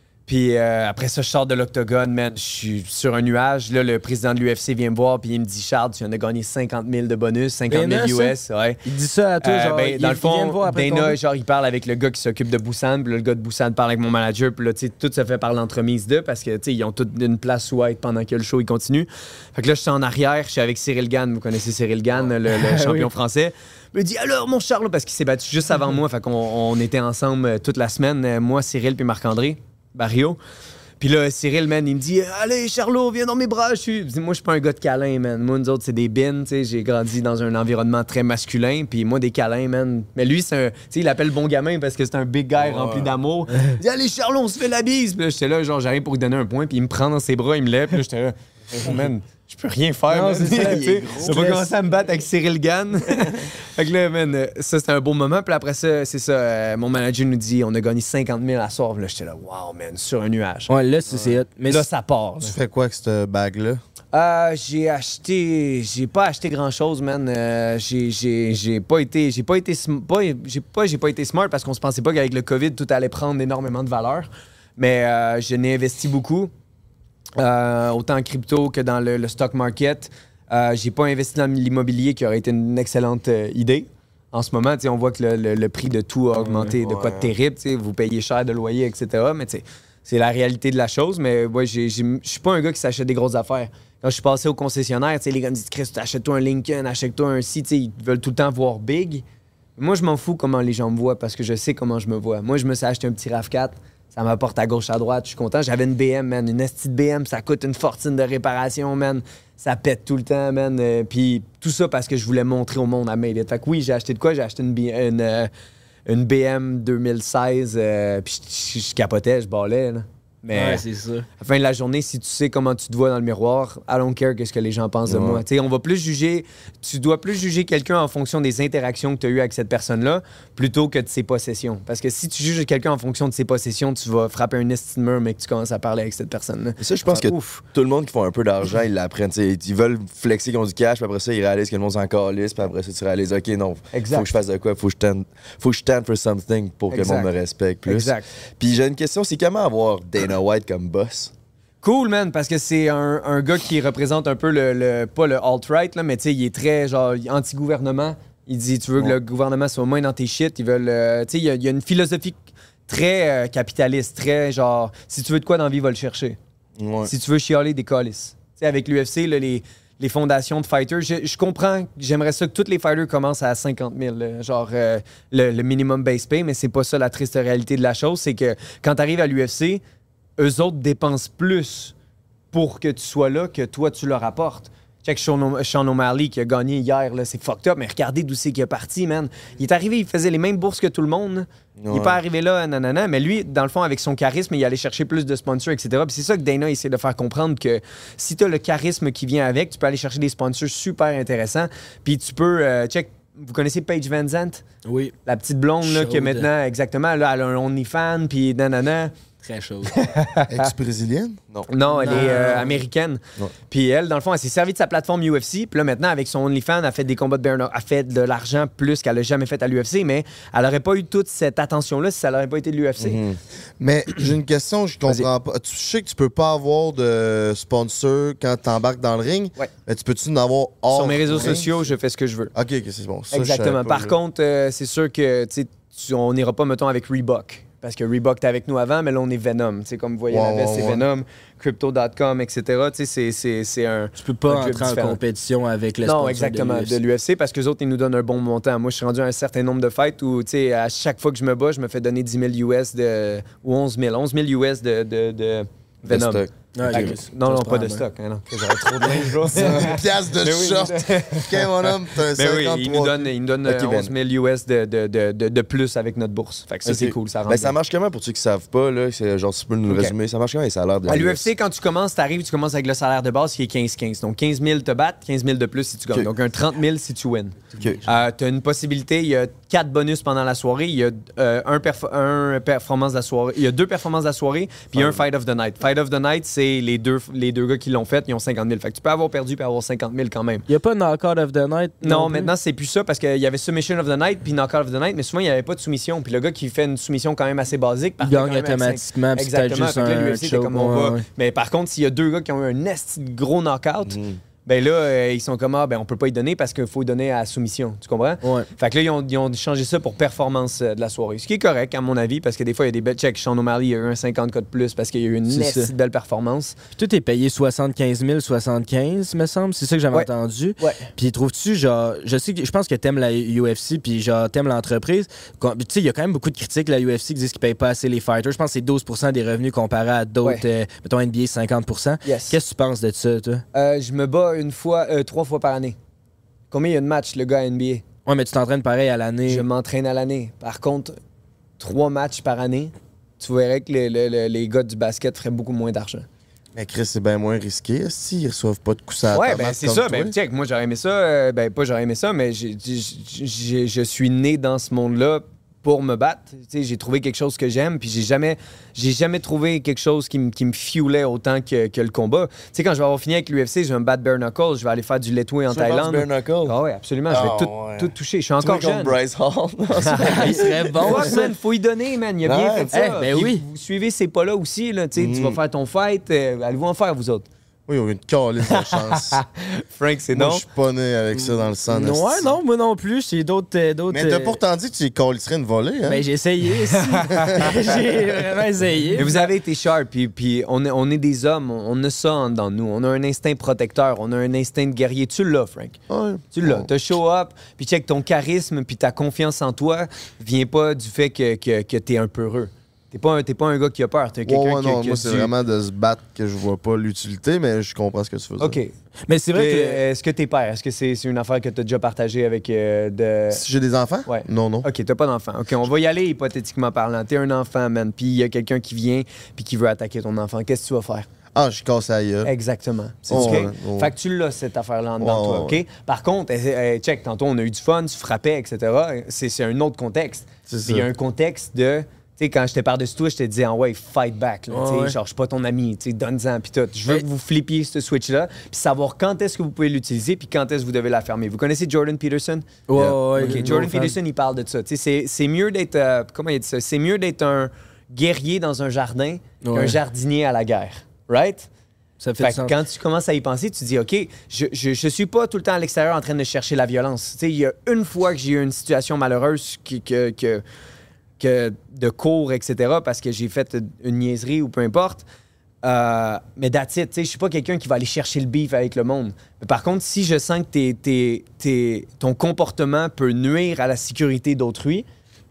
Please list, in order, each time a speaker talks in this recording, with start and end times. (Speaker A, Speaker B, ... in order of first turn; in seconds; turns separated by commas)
Speaker A: 0.3-8.8, Speaker B: 7.7-11.2, Speaker A: 9.4-30.4, Speaker B: 22.5-23.1, Speaker A: 31.0-60.7, Speaker C: 42.6-43.1, Speaker B: 50.1-51.7, Speaker C: 50.5-51.5, Speaker B: 60.7-61.9, Speaker A: 61.7-62.6, Speaker D: 62.4-63.8, Speaker A: 64.1-76.5, Speaker A: 77.3-99.2, Speaker C: 86.4-87.3, Speaker A: 99.8-115.5, Speaker A: 116.1-120.8, Speaker B: 120.5-121.3, Speaker A: 121.4-137.6, Speaker C: 125.1-125.4, Speaker C: 136.8-151.3, Speaker A: 143.9-144.3, Speaker A: 146.9-147.3, Speaker A: 147.8-148.3, Speaker A: 151.8-166.4, Speaker C: 166.8-167.1, Speaker A: 167.0-179.8, Speaker A: 180.4-181.9, Speaker A: 182.5-204.6, Speaker C: 191.8-192.2, Speaker B: 204.8-205.1, Speaker A: 205.2-209.1, Speaker B: 205.8-206.5, Speaker B: 209.4-209.9, Speaker A: 209.9-210.7, Speaker D: 210.5-211.4, Speaker A: 211.7-223.2, Speaker B: 212.0-212.8, Speaker C: 223.0-223.4, Speaker D: 223.8-231.7, Speaker A: 230.9-232.5, Speaker D: 232.5-234.2, Speaker A: 233.3-245.2, Speaker D: 240.3-241.0, Speaker B: 244.2-246.9, Speaker A: 246.0-261.6, Speaker C: 256.1-257.2, Speaker B: 256.7-258.0, Speaker D: 259.5-263.3, Speaker C: 259.6-259.9, Speaker A: 262.3-267.7, Speaker C: 263.6-264.1, Speaker C: 266.8-271.5, Speaker A: 269.9-270.1, Speaker A: 271.1-290.6, Speaker C: 284.9-285.2, Speaker B: 290.7-292.5, Speaker A: 292.0-316.8, Speaker B: 298.2-301.2, Speaker C: 304.1-304.4, Speaker B: 308.4-308.7, Speaker B: 315.5-315.9, Speaker B: 316.9-333.6, Speaker A: 320.1-321.1, Speaker A: 332.2-332.6, Speaker A: 333.7-335.9, Speaker A: 336.7-338.0, Speaker B: 338.2-339.6, Speaker A: 339.5-341.2, Speaker A: 341.8-346.2, Speaker D: 346.7-350.3, Speaker A: 349.3-369.2, Speaker C: 365.7-366.8, Speaker C: 367.3-371.4, Speaker A: 369.9-377.4, Speaker B: 370.2-371.5, Speaker C: 372.4-372.9, Speaker B: 372.9-373.6, Speaker C: 375.1-375.6, Speaker D: 377.9-379.4, Speaker A: 379.1-380.6, Speaker D: 380.3-382.5, Speaker B: 381.9-384.6, Speaker D: 384.1-386.2, Speaker B: 386.1-389.5, Speaker A: 387.0-387.7, Speaker A: 389.2-396.0, Speaker D: 396.1-396.9, Speaker A: 396.5-405.5, Speaker D: 404.5-408.8, Speaker A: 408.6-408.9, Speaker B: 409.3-410.0, Speaker A: 409.5-413.6, Speaker D: 413.5-414.9, Speaker A: 414.3-421.3, Speaker D: 421.5-422.5, Speaker A: 422.4-442.7, Speaker D: 423.3-424.1, Speaker C: 423.3-423.6, Speaker D: 425.2-425.8, Speaker D: 430.7-431.1, Speaker B: 434.7-435.1, Speaker B: 442.9-444.1, Speaker C: 443.0-443.8, Speaker A: 443.4-451.7, Speaker B: 449.6-450.0, Speaker B: 452.2-452.7, Speaker A: 452.4-460.6, Speaker A: 461.4-465.2, Speaker A: 465.8-475.1